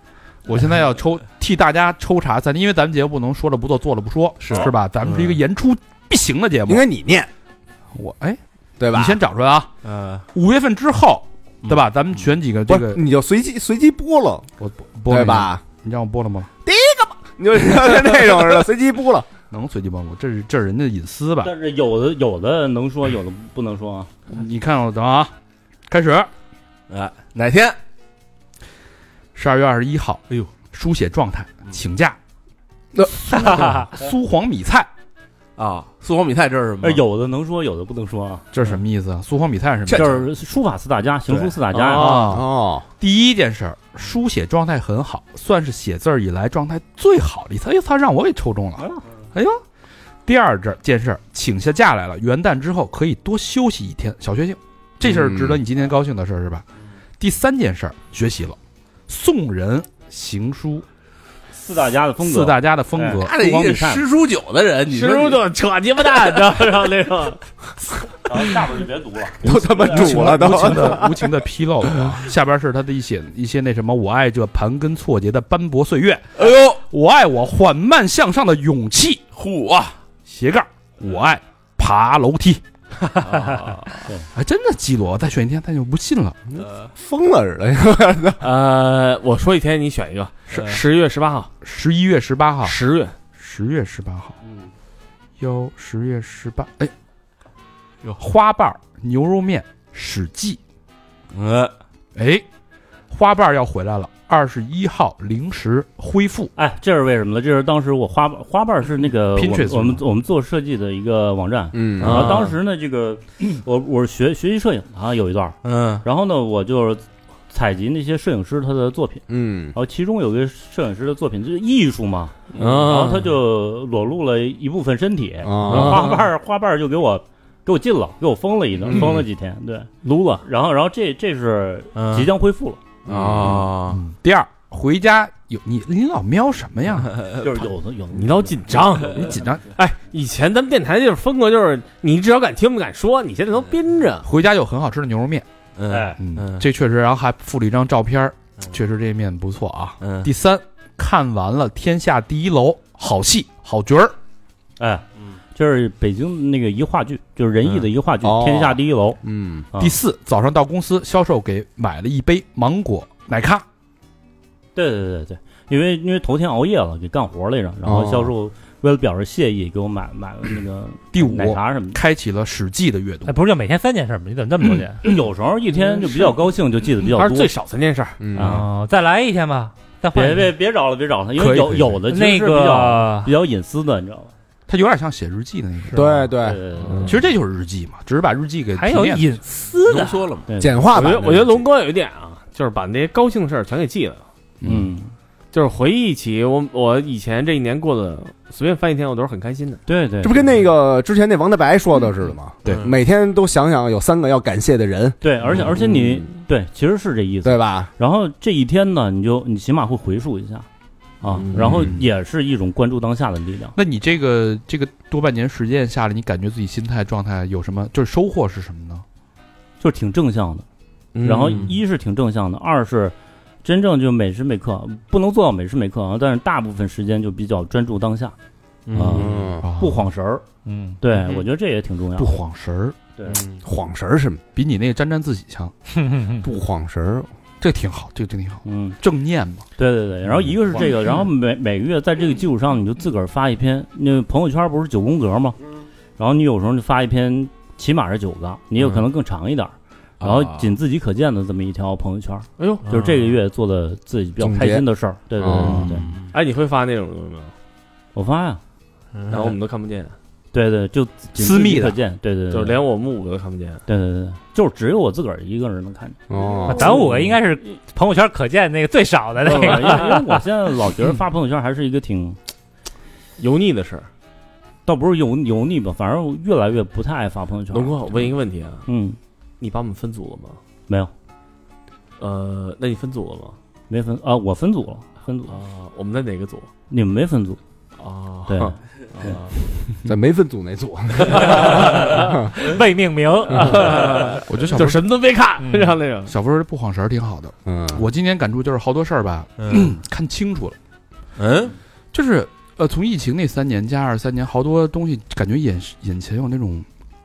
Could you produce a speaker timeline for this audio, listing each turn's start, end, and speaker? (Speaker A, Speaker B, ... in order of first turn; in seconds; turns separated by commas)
Speaker A: 0.5-6.8, Speaker B: 4.4-5.4, Speaker C: 6.7-7.3, Speaker A: 8.0-8.4, Speaker C: 8.8-9.2, Speaker A: 8.9-9.7, Speaker B: 9.8-10.3, Speaker A: 10.3-13.0, Speaker C: 12.7-14.5, Speaker A: 14.6-16.5, Speaker C: 15.1-15.6, Speaker C: 16.6-19.3, Speaker A: 19.5-21.5, Speaker D: 21.4-24.1, Speaker A: 24.3-25.3, Speaker A: 25.9-26.3, Speaker B: 26.9-27.8, Speaker A: 29.3-32.2, Speaker C: 32.9-33.7, Speaker A: 33.1-34.9, Speaker B: 35.6-37.0, Speaker D: 36.8-38.5, Speaker A: 38.5-40.2, Speaker D: 39.9-42.4, Speaker B: 41.3-41.5, Speaker E: 41.8-42.3, Speaker A: 41.9-42.4, Speaker C: 42.3-42.9, Speaker A: 43.0-49.6, Speaker A: 50.3-56.6, Speaker C: 55.0-55.6, Speaker A: 57.2-60.9, Speaker D: 61.5-64.0, Speaker A: 62.2-63.3, Speaker B: 63.1-65.4, Speaker E: 64.9-67.4, Speaker D: 68.3-71.0, Speaker C: 69.4-71.4, Speaker A: 69.9-79.2, Speaker B: 76.4-76.8, Speaker B: 79.4-80.0, Speaker A: 80.3-82.6, Speaker B: 83.2-84.0, Speaker A: 84.3-86.4, Speaker C: 86.6-88.4, Speaker E: 88.4-91.5, Speaker B: 90.5-90.8, Speaker A: 91.6-92.8, Speaker E: 92.6-93.2, Speaker A: 93.4-94.4, Speaker A: 95.4-96.9, Speaker A: 98.2-100.6, Speaker B: 101.3-101.7, Speaker A: 102.2-102.4, Speaker A: 103.1-106.5, Speaker D: 106.6-129.9, Speaker A: 109.3-110.0, Speaker C: 111.7-112.4, Speaker B: 112.0-112.5, Speaker E: 112.1-112.5, Speaker B: 115.6-116.0, Speaker C: 119.3-119.8, Speaker E: 122.5-123.3, Speaker C: 125.4-126.1, Speaker B: 125.7-126.2, Speaker C: 128.8-129.1, Speaker B: 128.9-129.2, Speaker E: 130.0-130.4, Speaker D: 130.4-132.8, Speaker B: 131.9-132.3, Speaker C: 133.1-133.7, Speaker B: 133.1-134.0, Speaker A: 133.9-137.3, Speaker D: 137.2-139.5, Speaker E: 138.1-144.3, Speaker A: 139.2-139.6, Speaker A: 144.2-145.5, Speaker B: 145.8-146.7, Speaker D: 145.9-146.2, Speaker A: 146.2-154.2, Speaker B: 150.0-150.3, Speaker D: 154.8-159.2, Speaker C: 158.2-159.7, Speaker D: 159.7-160.0, Speaker A: 159.8-163.6, Speaker D: 164.8-172.0, Speaker C: 167.8-168.3, Speaker A: 171.1-173.4, Speaker F: 173.3-175.2, Speaker D: 175.0-177.5, Speaker E: 175.8-176.3, Speaker E: 177.0-178.2, Speaker C: 178.2-178.7, Speaker D: 178.3-178.7, Speaker F: 178.4-180.5, Speaker D: 180.1-184.3, Speaker A: 181.4-182.0, Speaker F: 182.1-183.3, Speaker A: 184.7-186.0, Speaker C: 185.9-186.9, Speaker D: 186.0-187.3, Speaker A: 187.0-189.2, Speaker F: 188.8-190.3, Speaker B: 189.9-190.4, Speaker D: 190.5-190.8, Speaker C: 190.6-191.7, Speaker E: 190.9-194.2, Speaker A: 194.6-194.9, Speaker D: 194.6-195.1, Speaker E: 195.5-199.8, Speaker D: 199.9-200.4, Speaker C: 200.2-205.9, Speaker B: 202.7-202.9, Speaker D: 205.2-210.7, Speaker C: 207.4-207.9, Speaker D: 211.2-213.8, Speaker E: 211.3-211.9, Speaker A: 213.8-219.1, Speaker D: 219.8-220.7, Speaker E: 221.2-221.7, Speaker D: 221.2-228.3, Speaker B: 228.9-229.5, Speaker D: 228.9-230.4, Speaker C: 229.1-229.7, Speaker A: 229.6-230.1, Speaker F: 230.7-231.0, Speaker D: 231.0-232.4, Speaker A: 232.2-233.0, Speaker D: 233.2-233.4, Speaker C: 233.6-234.4, Speaker A: 234.6-235.7, Speaker F: 236.1-236.4, Speaker C: 236.4-237.3, Speaker A: 237.6-239.7, Speaker D: 238.7-239.0, Speaker D: 239.8-245.6, Speaker B: 240.5-240.9, Speaker D: 246.2-256.1, Speaker B: 248.8-249.0, Speaker B: 250.2-250.8, Speaker E: 252.6-252.9, Speaker B: 252.9-253.3, Speaker C: 254.4-254.9, Speaker C: 255.4-255.9, Speaker B: 255.6-256.3, Speaker E: 256.3-257.5, Speaker D: 258.1-258.6, Speaker B: 259.1-259.5, Speaker E: 259.3-260.1, Speaker D: 260.5-262.8, Speaker A: 261.4-262.0, Speaker E: 262.5-263.8, Speaker D: 263.9-266.2, Speaker C: 266.3-266.9, Speaker F: 266.7-270.4, Speaker D: 266.7-267.4, Speaker D: 269.4-272.4, Speaker E: 273.4-274.1, Speaker D: 274.9-278.3, Speaker E: 277.7-278.9, Speaker D: 278.9-279.2, Speaker E: 279.6-280.6, Speaker E: 282.2-283.6, Speaker D: 283.9-285.6, Speaker E: 285.5-286.7, Speaker D: 286.9-287.6, Speaker E: 288.0-289.5, Speaker D: 288.5-289.4, Speaker C: 290.1-292.3, Speaker E: 291.4-291.9, Speaker F: 291.6-294.3, Speaker E: 293.5-296.3, Speaker A: 294.5-295.1, Speaker F: 295.6-296.0, Speaker A: 296.3-300.8, Speaker C: 297.7-298.1, Speaker B: 299.6-299.9, Speaker B: 301.4-301.8, Speaker A: 302.1-306.9